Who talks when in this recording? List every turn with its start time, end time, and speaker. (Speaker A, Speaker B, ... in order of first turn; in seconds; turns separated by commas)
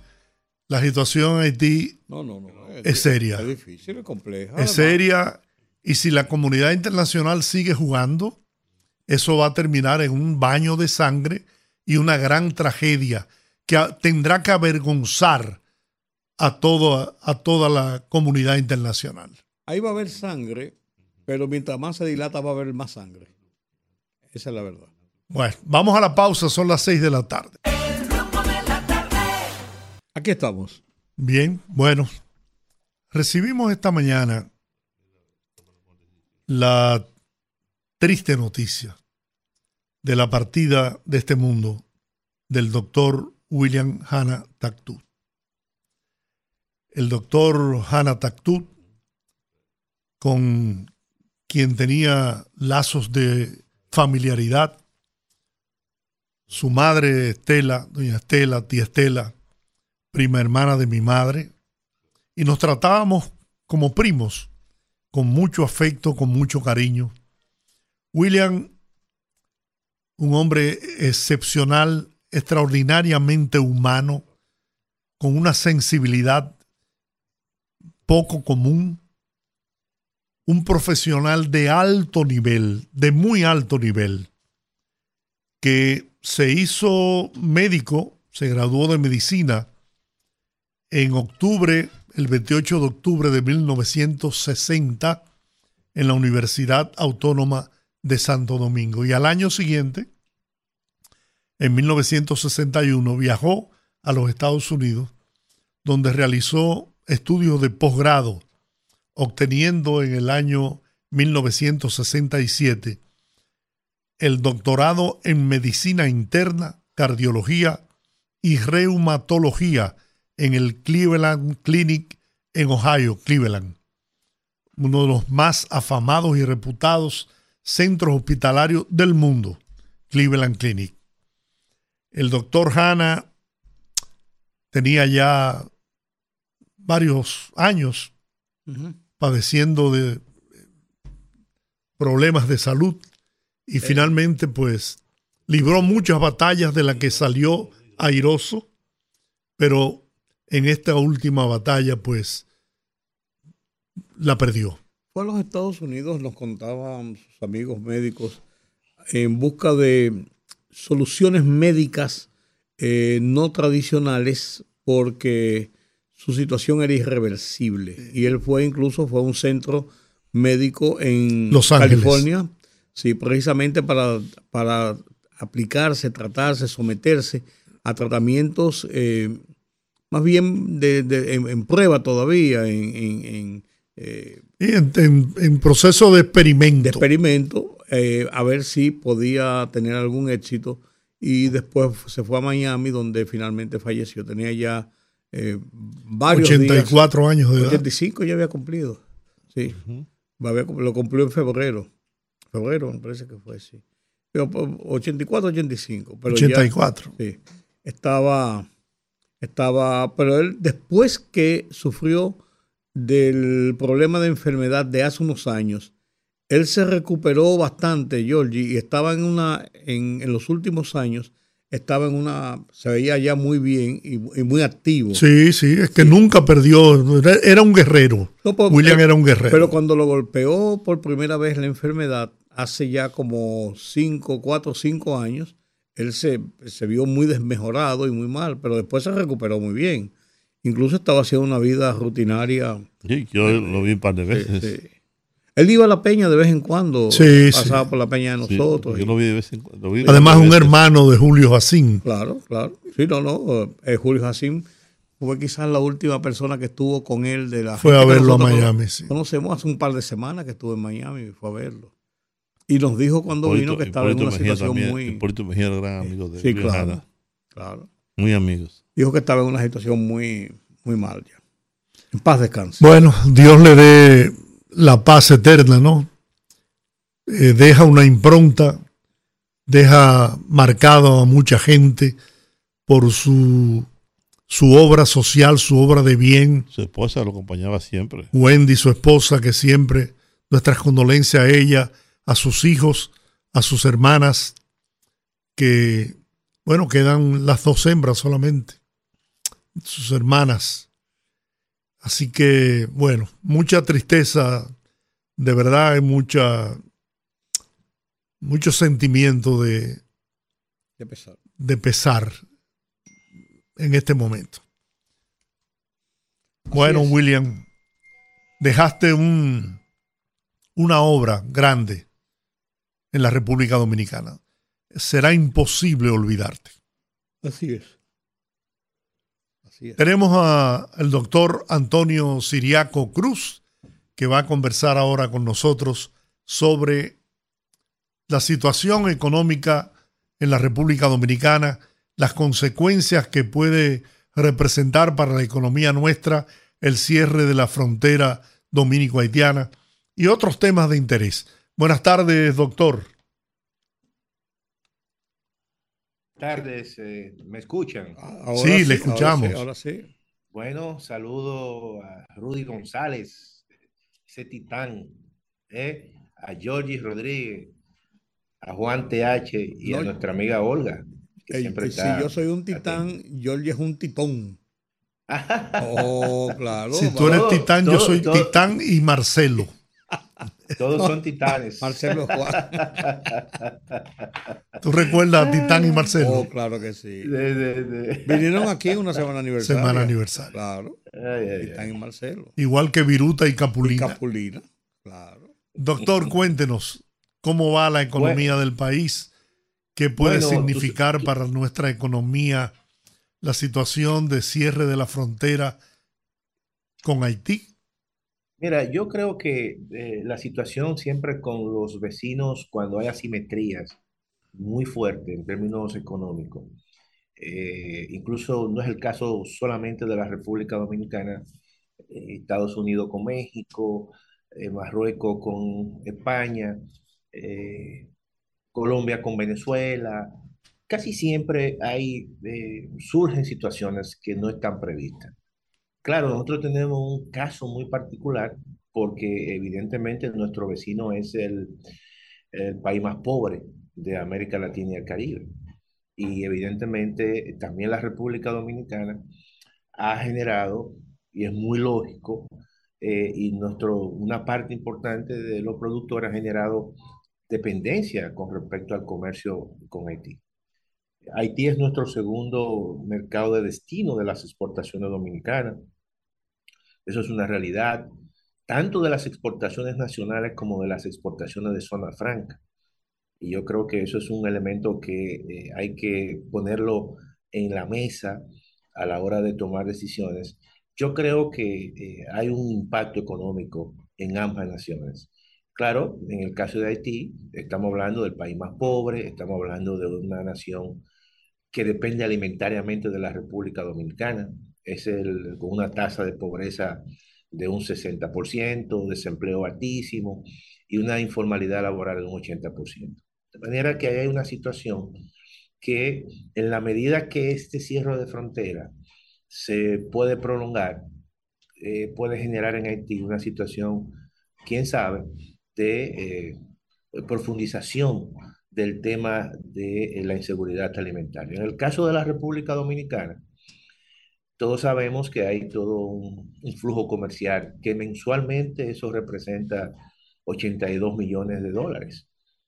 Speaker A: 0.7-2.0, Speaker B: 2.1-5.0, Speaker A: 2.8-3.5, Speaker A: 4.6-8.4, Speaker A: 9.1-15.6, Speaker A: 16.4-19.4, Speaker B: 19.7-20.8, Speaker B: 21.3-23.3, Speaker B: 24.3-24.9, Speaker A: 25.3-27.6, Speaker B: 30.1-30.8, Speaker A: 31.2-32.2, Speaker A: 33.1-34.5, Speaker A: 36.5-37.1, Speaker A: 38.0-39.0, Speaker A: 40.0-41.8, Speaker A: 42.5-45.0, Speaker A: 46.9-48.7, Speaker A: 50.2-50.9, Speaker A: 51.5-54.8, Speaker A: 56.5-59.3, Speaker A: 60.1-61.5, Speaker A: 62.4-64.5, Speaker A: 65.1-67.1, Speaker A: 68.1-68.7, Speaker A: 70.2-74.2, Speaker A: 75.2-76.6, Speaker A: 78.1-79.0, Speaker A: 80.5-84.3, Speaker A: 85.6-89.7, Speaker A: 90.9-95.2, Speaker A: 96.0-100.1, Speaker A: 101.6-105.1, Speaker A: 105.8-108.4, Speaker A: 109.2-113.0, Speaker A: 114.2-117.8, Speaker A: 118.4-123.8, Speaker A: 124.8-130.9, Speaker A: 132.1-133.3, Speaker A: 134.7-135.7, Speaker A: 136.8-138.1, Speaker B: 138.7-139.0, Speaker A: 139.2-140.3, Speaker A: 142.0-143.1, Speaker A: 143.7-148.7, Speaker A: 149.6-152.4, Speaker A: 154.2-154.8, Speaker B: 155.1-158.4, Speaker B: 159.1-162.3, Speaker B: 162.8-179.4, Speaker A: 171.5-172.3, Speaker B: 180.1-184.4, Speaker A: 184.6-187.0, Speaker B: 186.8-197.0, Speaker A: 196.3-197.8, Speaker B: 197.6-199.0, Speaker B: 199.5-199.8, Speaker C: 199.7-200.1, Speaker B: 200.4-201.9, Speaker B: 202.5-203.8, Speaker B: 204.3-208.7, Speaker A: 206.3-207.1, Speaker B: 209.4-212.4, Speaker B: 213.0-215.9, Speaker B: 216.5-225.2, Speaker A: 225.1-229.8, Speaker B: 228.4-240.1, Speaker B: 240.6-242.9, Speaker C: 243.1-244.7, Speaker B: 243.5-244.9, Speaker B: 245.6-249.1, Speaker A: 247.1-247.8, Speaker C: 248.5-250.8, Speaker B: 250.0-250.4, Speaker A: 250.1-252.0, Speaker B: 252.0-254.7, Speaker B: 255.2-261.9, Speaker A: 257.8-259.1, Speaker B: 262.7-265.2, Speaker C: 263.5-267.0, Speaker B: 266.4-267.0, Speaker B: 267.6-267.9, Speaker C: 268.2-268.8, Speaker B: 269.0-271.4, Speaker B: 272.1-272.9, Speaker A: 272.8-276.1, Speaker A: 277.3-278.8, Speaker A: 279.7-282.2, Speaker A: 282.9-283.9, Speaker A: 284.5-286.7, Speaker C: 286.7-288.3, Speaker A: 288.3-294.6, Speaker A: 295.6-298.8, Speaker A: 299.8-300.9, Speaker A: 302.0-304.7, Speaker A: 305.4-306.8, Speaker A: 308.4-310.0, Speaker B: 311.0-311.4, Speaker A: 311.6-312.4, Speaker A: 313.8-314.6, Speaker B: 316.7-317.1, Speaker A: 316.7-317.6, Speaker A: 318.6-319.8, Speaker A: 320.8-322.1, Speaker A: 323.1-324.4, Speaker A: 324.9-326.7, Speaker B: 327.4-328.0, Speaker B: 329.7-330.0, Speaker A: 330.0-333.6, Speaker A: 334.2-337.2, Speaker A: 338.3-353.1, Speaker D: 356.4-358.2, Speaker B: 358.2-360.1, Speaker A: 358.5-359.6, Speaker D: 360.5-363.6, Speaker D: 364.3-365.2, Speaker D: 365.7-367.7, Speaker D: 368.6-373.1, Speaker B: 369.9-370.1, Speaker B: 371.5-374.6, Speaker D: 375.3-376.6, Speaker B: 375.8-377.5, Speaker A: 377.0-379.7, Speaker D: 377.1-378.7, Speaker D: 380.8-384.0, Speaker B: 381.8-383.0, Speaker D: 384.8-386.3, Speaker A: 384.8-386.5, Speaker B: 386.2-387.3, Speaker D: 387.2-389.0, Speaker B: 388.3-391.0, Speaker A: 389.6-390.5, Speaker D: 391.1-391.9, Speaker B: 391.6-392.5, Speaker A: 392.6-394.2, Speaker B: 393.8-395.5, Speaker A: 395.8-399.3, Speaker D: 398.1-398.5, Speaker A: 400.0-402.7, Speaker D: 400.2-401.3, Speaker A: 403.4-405.8, Speaker A: 407.0-407.7, Speaker D: 408.6-414.0, Speaker D: 414.6-416.7, Speaker D: 417.4-421.4, Speaker D: 422.1-426.8, Speaker D: 427.3-428.1, Speaker D: 428.7-430.4, Speaker D: 430.9-435.3, Speaker D: 436.0-441.8, Speaker D: 442.5-445.5, Speaker D: 446.2-449.2, Speaker D: 450.0-457.0, Speaker D: 457.5-460.4, Speaker D: 461.3-465.8, Speaker D: 467.1-468.1, Speaker D: 468.7-472.6, Speaker D: 473.4-478.4, Speaker D: 478.9-491.0, Speaker D: 491.7-505.2, Speaker D: 505.8-508.9, Speaker D: 509.5-511.1, Speaker D: 511.8-516.6, Speaker D: 517.1-523.4, Speaker D: 524.6-529.9, Speaker D: 530.5-532.3